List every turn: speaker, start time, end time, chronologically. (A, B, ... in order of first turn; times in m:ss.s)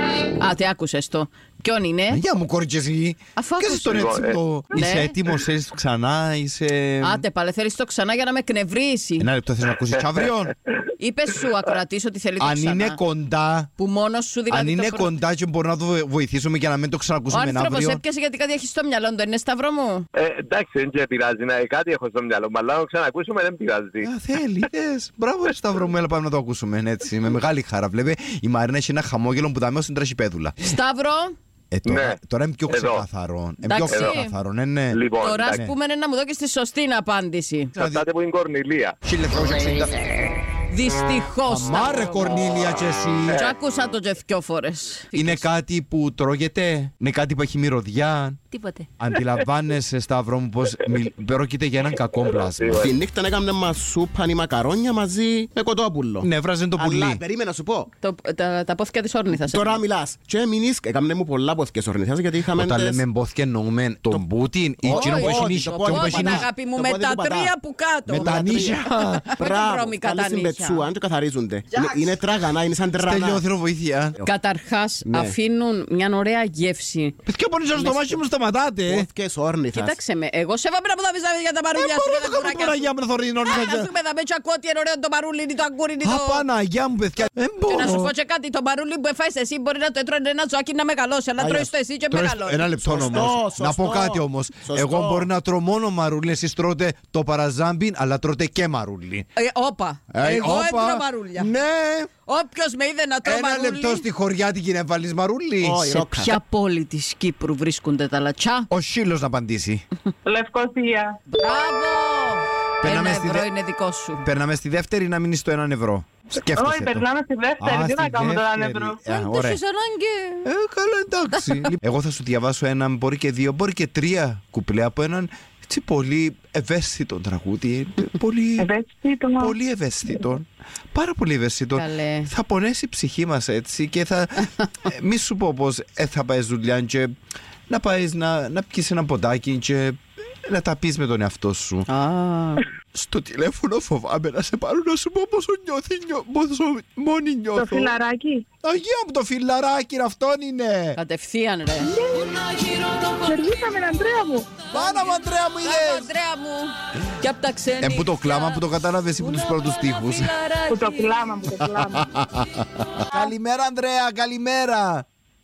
0:00.4-0:02.2 A
0:02.1-0:07.2 B
0:03.4-0:04.1 A
0:03.9-0:04.4 C
0:04.7-0:05.2 A
0:07.0-0:09.3 A
0:09.2-0:10.6 B
0:11.0-0:13.0 A
0:12.4-0:13.7 B
0:13.8-0:15.2 A
0:14.5-0:18.0 B
0:17.3-0:20.0 A
0:20.2-0:24.1 C
0:24.0-0:30.7 B
0:30.6-0:31.3 A
0:31.7-0:35.8 B
0:31.9-0:32.2 C
0:32.7-0:33.1 C
0:33.6-0:34.4 A
0:33.9-0:34.2 C
0:34.9-0:35.7 C
0:35.2-0:37.7 A
0:37.8-0:38.1 B
0:37.8-0:39.0 C
0:39.0-0:40.3 B
0:40.7-0:42.3 A
0:41.5-0:43.5 B
0:43.4-0:45.5 A
0:45.1-0:52.9 B
0:52.5-0:52.9 C
0:52.7-0:57.9 D
0:56.2-0:57.2 B
0:58.0-0:59.8 A
0:59.3-1:03.0 D
1:02.5-1:06.5 B
1:04.8-1:10.9 A
1:04.8-1:07.5 D
1:08.1-1:09.3 B
1:08.2-1:13.4 D
1:11.7-1:12.1 A
1:13.0-1:14.2 B
1:14.2-1:17.2 A
1:15.0-1:15.4 D
1:17.2-1:19.1 B
1:17.7-1:18.2 A
1:18.9-1:20.0 D
1:19.7-1:22.9 A
1:21.8-1:23.9 B
1:23.4-1:26.5 A
1:26.0-1:28.1 B
1:27.7-1:32.7 A
1:31.4-1:31.7 D
1:32.1-1:39.3 B
1:32.8-1:35.3 D
1:39.4-1:41.5 A
1:40.1-1:42.1 B
1:42.3-1:44.0 A
1:43.2-1:45.8 B
1:45.6-1:46.4 D
1:45.9-1:48.7 A
1:48.7-1:49.8 B
1:50.2-1:51.2 E
1:51.3-1:54.3 A
1:52.8-1:53.5 B
1:54.2-1:57.0 B
1:56.5-1:59.0 E
1:57.6-1:59.6 B
1:59.1-2:00.5 A
2:00.4-2:08.7 B
2:01.4-2:01.7 A
2:08.6-2:09.6 E
2:09.4-2:17.1 B
2:11.7-2:12.3 A
2:17.7-2:21.9 B
2:21.9-2:22.7 A
2:22.9-2:28.0 B
2:27.6-2:28.4 E
2:28.6-2:31.0 B
2:31.0-2:31.9 A
2:31.8-2:32.6 E
2:33.2-2:34.6 E
2:34.7-2:38.6 A
2:34.7-2:36.1 B
2:37.8-2:40.3 B
2:39.2-2:41.2 A
2:40.7-2:42.1 E
2:41.5-2:45.1 B